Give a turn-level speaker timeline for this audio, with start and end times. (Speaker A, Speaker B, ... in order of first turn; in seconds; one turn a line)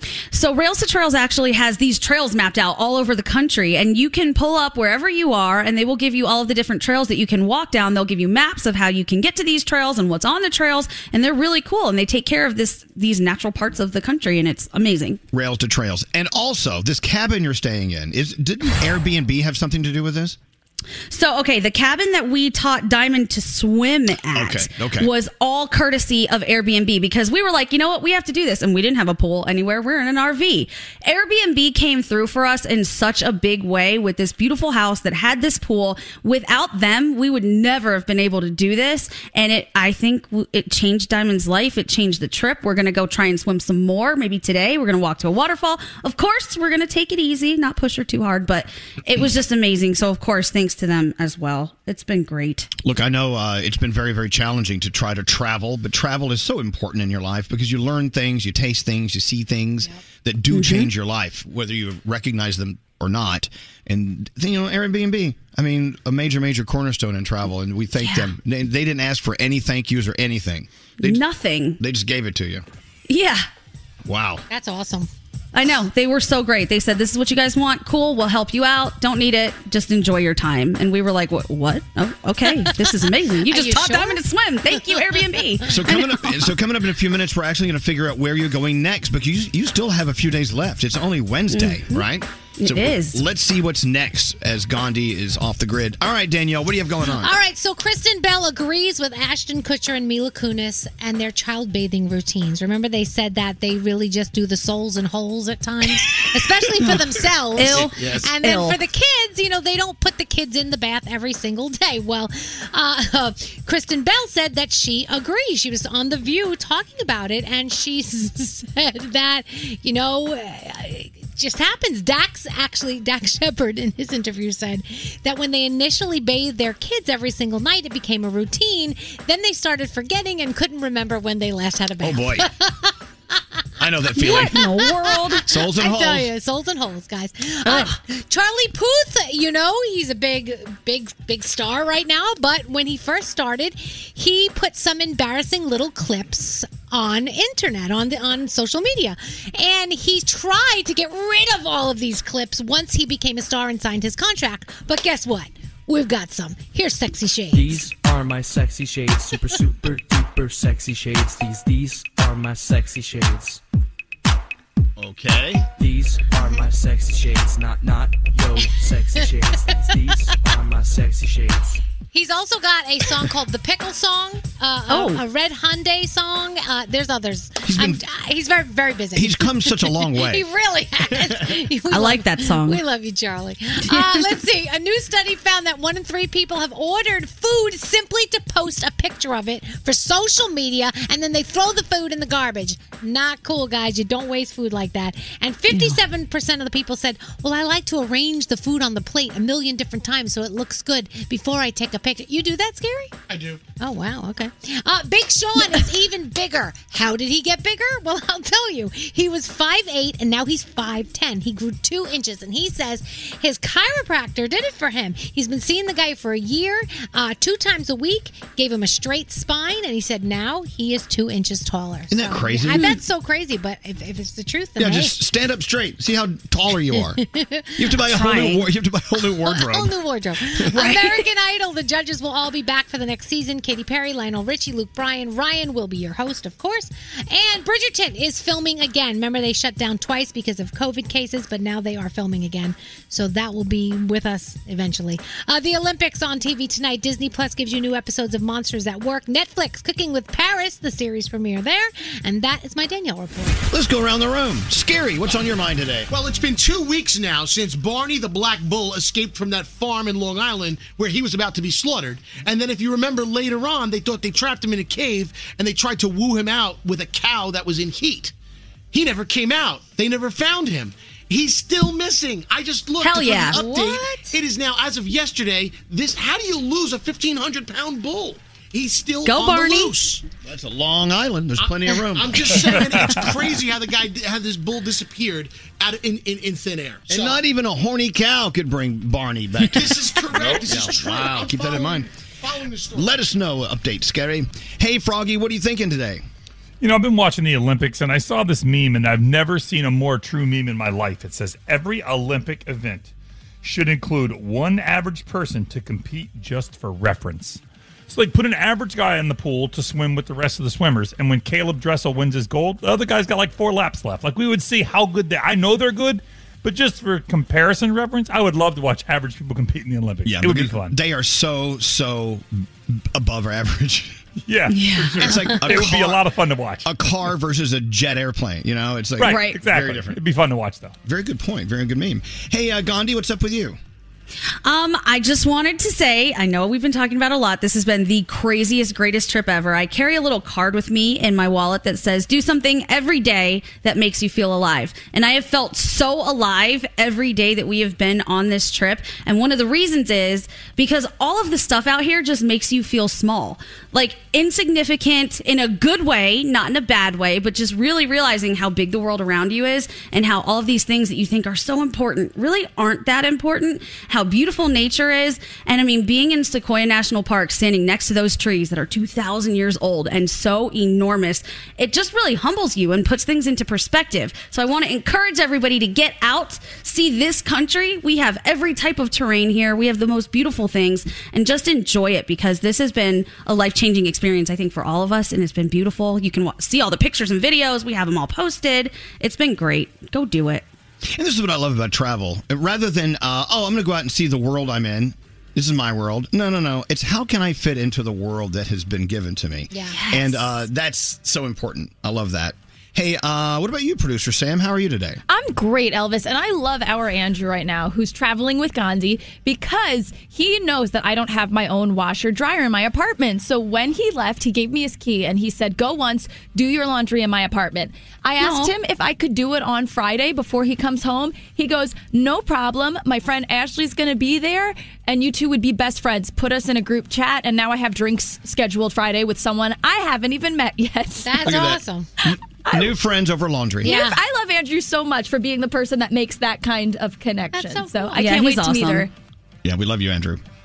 Speaker A: 0.3-15.2
Speaker B: 15.3-20.4
Speaker A: 21.1-52.7
Speaker B: 24.3-25.1
Speaker B: 52.8-71.2
Speaker A: 60.5-60.9
Speaker A: 68.0-68.3
Speaker A: 71.0-71.8
Speaker B: 71.8-72.6
Speaker A: 73.1-73.5
Speaker B: 74.0-74.4
Speaker C: 74.5-75.1
Speaker A: 75.5-86.3
Speaker C: 82.5-85.9
Speaker B: 85.7-97.3
Speaker A: 91.5-92.0
Speaker A: 92.6-93.2
Speaker C: 97.2-133.4
Speaker A: 107.5-108.8
Speaker B: 132.0-132.5
Speaker B: 133.8-134.6
Speaker A: 134.2-135.4
Speaker C: 134.2-157.9
Speaker B: 135.5-136.3
Speaker A: 137.6-138.0
Speaker D: 157.5-163.6
Speaker B: 165.0-165.6
Speaker D: 165.8-171.8
Speaker C: 172.1-203.1
Speaker A: 174.9-175.2
Speaker B: 177.6-178.0
Speaker B: 179.1-180.4
Speaker A: 181.9-182.8
Speaker A: 183.9-184.2
Speaker E: 203.3-203.6
Speaker C: 203.8-225.2
Speaker B: 222.1-222.9
Speaker A: 222.7-223.0
Speaker B: 224.8-227.2
Speaker C: 226.9-228.0
Speaker B: 227.8-229.9
Speaker A: 228.1-228.6
Speaker C: 229.4-253.6
Speaker A: 230.7-231.2
Speaker B: 253.7-256.1
Speaker E: 256.1-268.3
Speaker E: 268.9-280.2
Speaker A: 273.0-273.7
Speaker C: 273.4-274.3
Speaker A: 279.2-279.9
Speaker B: 280.4-282.7
Speaker E: 281.6-287.4
Speaker B: 287.1-292.1
Speaker E: 289.6-293.2
Speaker B: 292.9-296.2
Speaker F: 296.8-303.1
Speaker F: 303.6-320.9
Speaker B: 320.2-324.2
Speaker F: 324.4-326.9
Speaker A: 324.7-325.5
Speaker B: 325.2-326.2
Speaker B: 326.8-330.2
Speaker F: 329.2-330.9
Speaker A: 329.2-329.6
Speaker B: 331.0-333.8
Speaker A: 334.6-390.6
Speaker B: 391.1-405.2
Speaker C: 399.7-400.0
Speaker A: 399.9-400.5
Speaker G: 405.3-431.6
Speaker A: 418.4-418.7
Speaker C: 431.2-432.1
Speaker B: 431.4-431.8
Speaker G: 432.6-432.9
Speaker B: 432.7-434.0
Speaker C: 433.8-434.2
Speaker G: 433.8-439.1
Speaker C: 437.5-438.2
Speaker A: 438.1-439.1
Speaker B: 439.6-440.4